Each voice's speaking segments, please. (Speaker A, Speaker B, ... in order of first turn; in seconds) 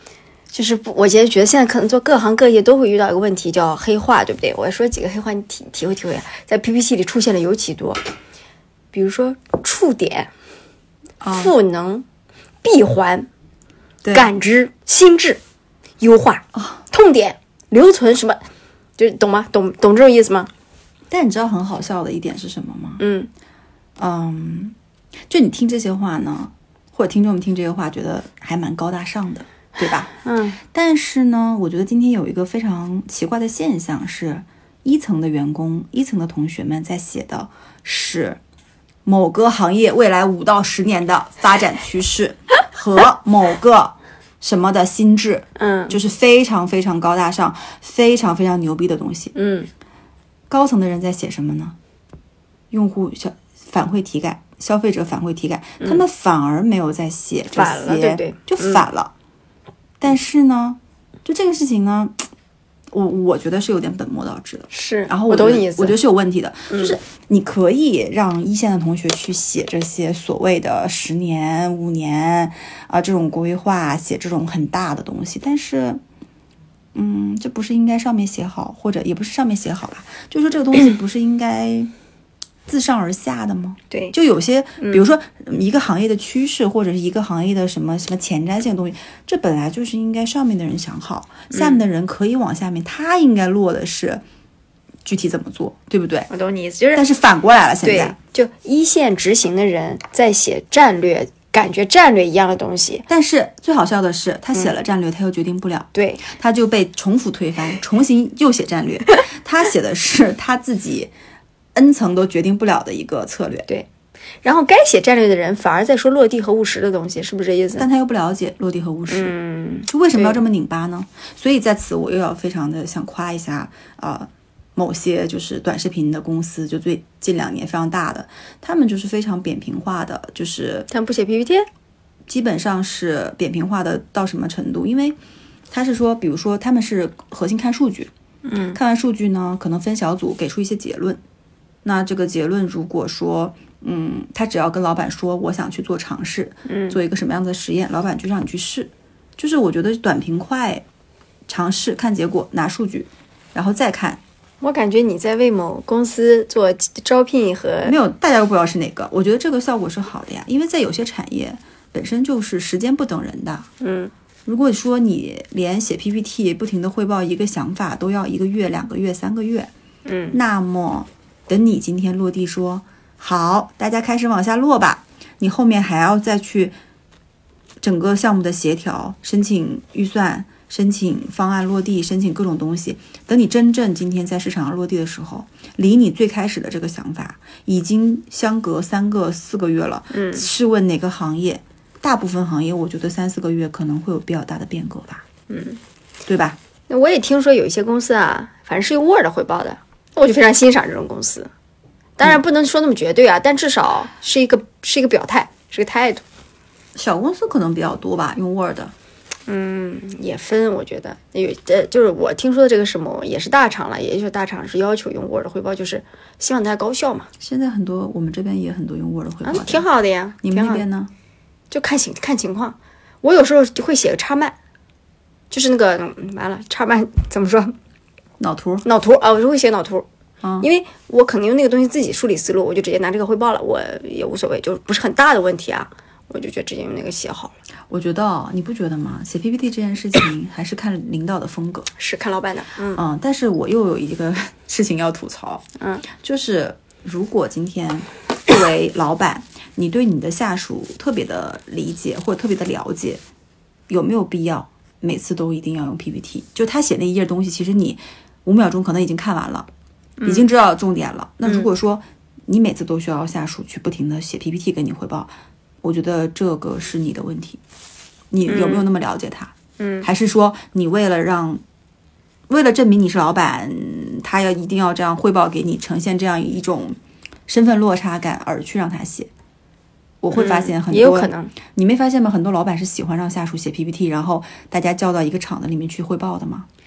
Speaker A: 0.5-8.0, 8.9-10.3, 11.3-12.1, 12.6-13.3, 14.1-15.4, 16.0-18.4, 19.0-20.5, 23.0-23.3, 30.2-30.6, 45.6-46.0, 49.4-49.7, 57.5-58.9, 64.7-66.0, 66.7-67.0, 83.9-84.2, 84.8-85.1, 91.5-91.8, 96.3-97.0, 97.8-103.1, 105.9-106.2, 114.4-117.8, 119.1-120.4, 130.9-131.7, 138.4-138.8, 146.7-147.0, 154.6-158.0, 163.8-164.1, 170.1-170.4, 190.1-190.5, 195.5-195.8, 196.9-201.5, 202.2-206.2, 209.5-217.3, 219.4-220.8, 221.7-224.6, 225.5-227.8, 228.8-230.1, 230.6-237.5, 242.0-243.0, 260.2-260.5, 261.4-261.7, 268.5-268.9, 269.8-270.1, 280.3-281.6
Speaker B: 11.2-11.5, 14.0-14.3, 16.5-16.8, 21.1-23.0, 24.0-24.8, 25.3-30.1, 30.7-38.4, 39.0-49.3, 50.5-51.8, 52.7-59.1, 60.0-62.2, 62.9-76.0, 77.0-81.9, 82.7-94.2, 95.0-96.3, 96.9-98.2, 103.1-111.1, 111.8-113.7, 117.8-119.3, 119.9-130.9, 132.3-135.2, 135.7-138.1, 138.7-141.2, 141.8-150.8, 151.5-154.2, 157.8-163.7, 164.5-169.7, 170.3-176.8, 177.8-195.2, 196.3-196.6, 206.9-208.9, 217.4-219.8, 220.4-221.1, 228.4-228.8, 230.4-230.7, 237.9-241.9, 242.9-253.2, 253.9-259.7, 260.2-265.3, 265.8-267.6, 268.3-271.6, 272.5-279.3, 280.2-286.7